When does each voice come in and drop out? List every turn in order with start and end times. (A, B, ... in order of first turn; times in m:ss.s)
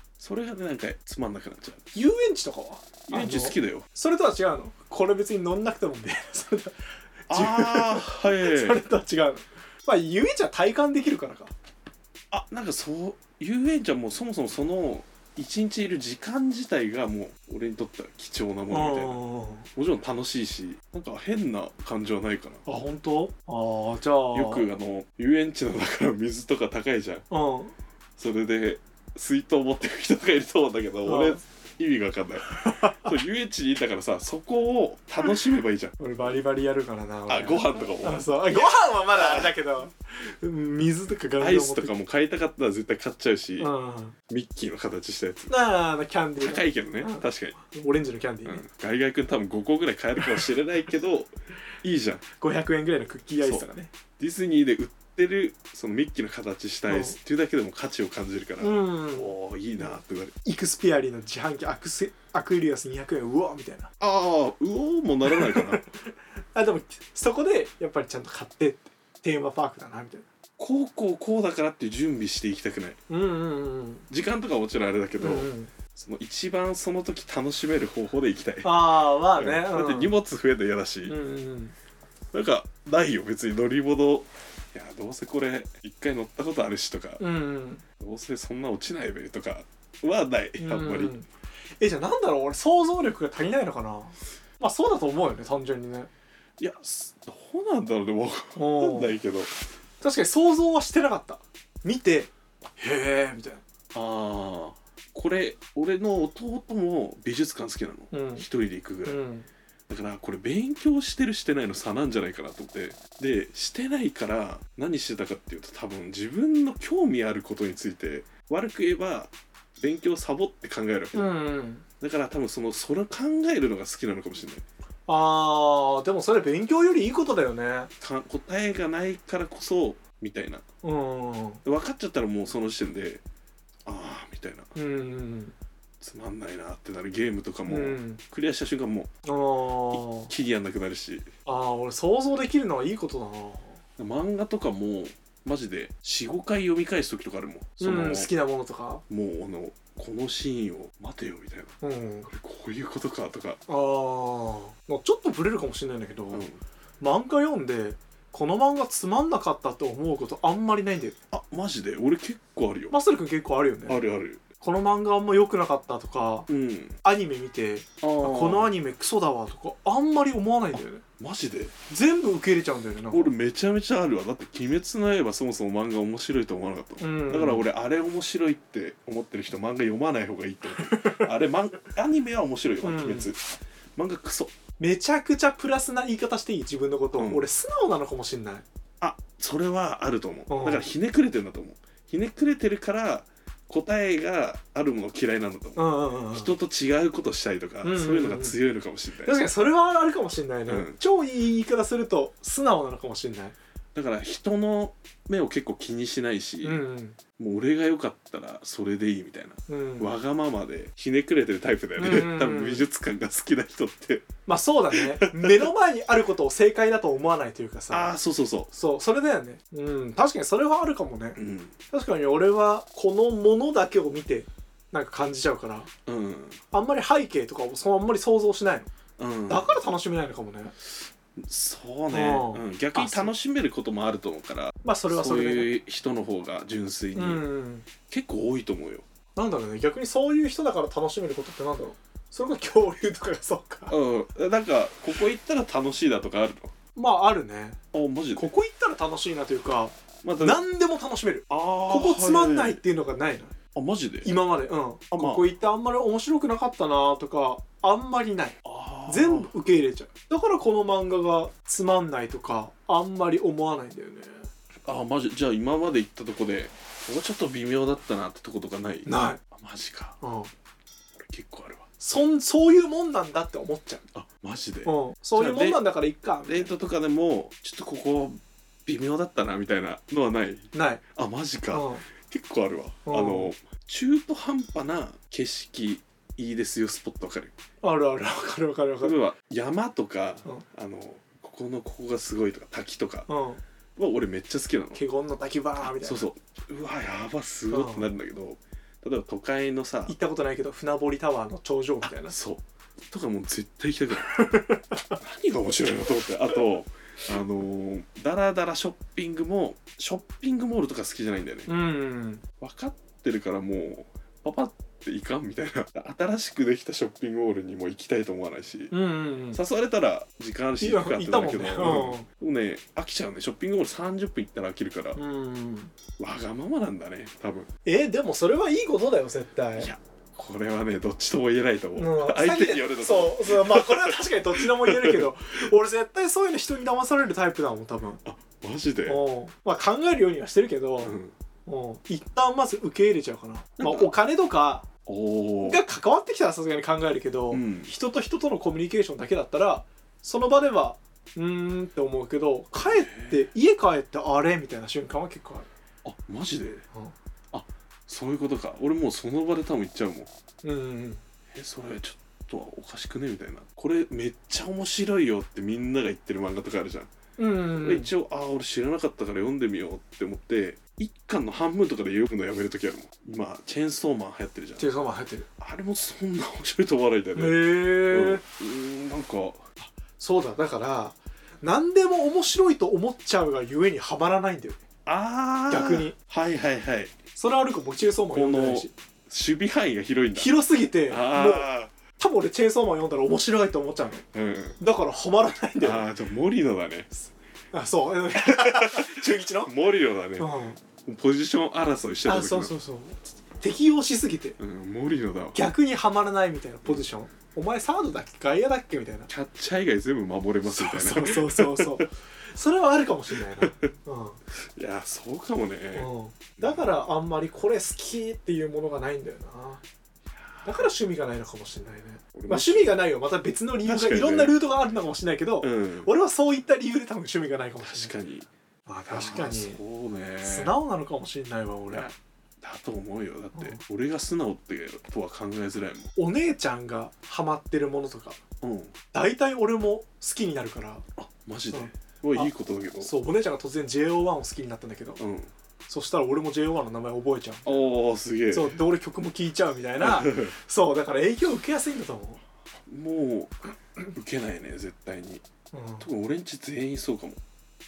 0:00.2-0:01.8 A
0:01.9-0:11.5 B
0:03.1-0:03.9 A
0:07.3-0:08.8 A
0:12.3-0:19.2 A
0:18.7-0:19.7 B
0:19.8-0:22.6 A
0:22.6-0:24.7 B
0:24.3-0:27.2 A
0:27.3-0:27.8 B
0:28.2-0:36.0 A
0:31.0-0:31.4 B
0:32.7-0:33.0 B
0:36.0-0:41.9 B
0:37.3-0:38.6 A
0:39.2-0:39.5 A
0:41.4-0:43.7 A
0:43.6-0:44.2 B
0:44.3-0:45.5 A
0:45.5-0:48.6 B
0:46.4-0:47.6 A
0:48.4-0:52.2 A
0:50.2-0:50.4 B
0:52.4-0:53.9 B
0:53.4-0:53.7 A
0:54.2-1:00.4 A
0:56.9-0:57.2 B
0:58.6-1:03.9 B
1:04.0-1:05.9 A
1:05.3-1:10.3 B
1:10.6-1:13.0 A
1:13.1-1:14.1 B
1:14.1-1:21.2 A
1:15.2-1:15.7 B
1:18.6-1:20.2 B
1:21.0-1:21.8 B
1:22.3-1:27.2 A
1:27.2-1:27.8 B
1:28.0-1:31.2 A
1:30.6-1:31.3 B
1:31.8-1:36.1 B
1:36.6-1:39.5 A
1:38.6-1:39.2 B
1:40.0-1:43.6 B
1:43.9-1:49.2 A
1:48.1-1:48.5 B
1:49.0-1:49.5 B
1:49.9-2:01.3 A
2:01.1-2:01.8 B
2:02.0-2:04.6 A
2:05.1-2:07.9 B
2:08.0-2:10.6 A
2:10.8-2:11.6 B
2:11.6-2:13.2 A
2:13.9-2:14.7 A
2:14.8-2:15.6 B
2:16.0-2:19.1 A
2:17.6-2:18.2 B
2:19.2-2:20.3 B
2:19.9-2:21.3 A
2:21.5-2:23.8 B
2:24.0-2:28.3 A
2:27.8-2:29.0 B
2:29.1-2:31.8 A
2:31.8-2:32.3 B
2:32.3-2:33.6 A
2:33.7-2:36.5 B
2:36.3-2:36.6 A
2:37.0-2:41.2 B
2:41.3-2:43.0 A
2:42.9-2:44.0 B
2:43.9-2:44.4 A
2:44.6-2:46.5 B
2:46.5-2:47.0 A
2:47.0-2:51.0 B
2:48.0-2:48.8 A
2:50.8-2:51.8 A
2:51.9-2:53.3 B
2:53.1-3:03.4 A
2:57.0-2:57.7 B
3:00.8-3:01.2 B
3:02.8-3:03.3 B
3:04.0-3:04.5 A
3:04.8-3:08.6 B
3:07.1-3:07.4 A
3:09.0-3:19.4 A
3:10.5-3:10.9 B
3:15.8-3:16.5 B
3:17.8-3:18.6 B
3:19.2-3:23.6 B
3:20.7-3:21.0 A
3:23.9-3:26.8 A
3:26.6-3:27.2 B
3:27.4-3:34.3 A
3:29.7-3:30.1 B
3:32.0-3:32.9 B
3:34.5-3:38.2 B
3:34.9-3:35.7 A
3:37.9-3:38.7 A
3:38.7-3:45.9 B
3:41.4-3:41.7 A
3:46.1-3:46.6 A
3:46.7-3:48.9 B
3:49.2-3:49.8 A
3:49.5-3:50.7 B
3:51.4-3:57.5 A
3:52.1-3:53.3 B
3:54.8-3:55.7 B
3:57.2-3:57.9 B
3:58.1-3:59.0 A
3:59.4-4:04.0 B
4:03.9-4:06.7 A
4:07.0-4:07.8 B
4:07.9-4:08.5 A
4:08.4-4:13.6 B
4:10.2-4:10.6 A
4:11.5-4:12.8 A
4:13.8-4:14.4 A
4:14.2-4:24.5 B
4:15.1-4:15.5 A
4:18.6-4:19.5 A
4:24.9-4:30.2 A
4:29.0-4:29.4 B
4:30.2-4:30.5 B
4:31.2-4:31.8 A
4:32.0-4:34.1 B
4:34.1-4:35.9 A
4:34.8-4:36.7 B
4:36.4-4:47.5 A
4:40.7-4:41.0 B
4:41.7-4:42.0 B
4:43.1-4:43.5 B
4:47.8-4:49.2 B
4:49.0-4:53.3 A
4:53.3-4:53.6 B
4:54.0-4:55.0 A
4:55.0-4:56.3 B
4:55.8-5:00.2 A
4:57.7-4:58.1 B
5:00.1-5:02.4 B
5:02.0-5:04.4 A
5:04.3-5:05.1 B
5:05.2-5:11.7 A
5:11.7-5:12.4 B
5:12.6-5:18.9 A
5:18.9-5:19.6 B
5:19.5-5:25.2 A
5:20.8-5:22.3 B
5:25.2-5:25.9 B
5:26.2-5:27.7 A
5:27.8-5:29.9 B
5:29.8-5:35.3 A
5:32.0-5:38.2 B
5:38.2-5:39.2 A
5:39.1-5:44.9 B
5:41.0-5:41.3 A
5:43.8-5:44.1 A
5:45.1-5:45.8 A
5:45.6-5:55.7 B
5:47.5-5:47.9 A
5:52.8-5:53.5 A
5:56.0-5:56.8 A
5:57.5-6:00.3 A
6:00.6-6:01.2 B
6:01.5-6:07.1 A
6:07.4-6:08.1 B
6:07.8-6:14.9 A
6:14.8-6:15.5 B
6:15.6-6:19.6 A
6:17.4-6:18.4 B
6:19.8-6:24.8 B
6:25.1-6:27.2 A
6:25.7-6:26.1 B
6:27.4-6:28.9 B
6:28.3-6:30.6 A
6:30.3-6:34.2 B
6:31.1-6:31.9 A
6:34.3-6:34.8 A
6:34.8-6:36.1 B
6:35.8-6:37.2 A
6:37.7-6:39.7 B
6:38.4-6:42.7 A
6:40.4-6:40.8 B
6:42.2-6:44.6 B
6:44.6-6:45.6 A
6:45.5-6:49.3 B
6:49.3-6:52.0 A
6:50.7-6:54.4 B
6:53.5-6:53.9 A
6:54.6-6:56.9 A
6:56.0-6:59.8 B
7:00.4-7:00.9 A
7:00.6-7:08.2 B
7:02.4-7:03.0 A
7:03.8-7:04.6 A
7:05.6-7:06.1 A
7:07.8-7:08.5 A
7:08.9-7:09.8 B
7:09.1-7:10.8 A
7:10.4-7:12.1 B
7:11.9-7:16.1 A
7:16.2-7:18.4 B
7:18.6-7:18.9 A
7:19.1-7:21.0 B
7:21.2-7:23.1 A
7:21.7-7:25.2 B
7:25.2-7:25.5 A
7:25.9-7:27.9 B
7:27.7-7:28.8 A
7:28.5-7:32.4 B
7:30.0-7:30.6 A
7:32.9-7:35.4 A
7:35.7-7:36.1 B
7:36.0-7:37.4 A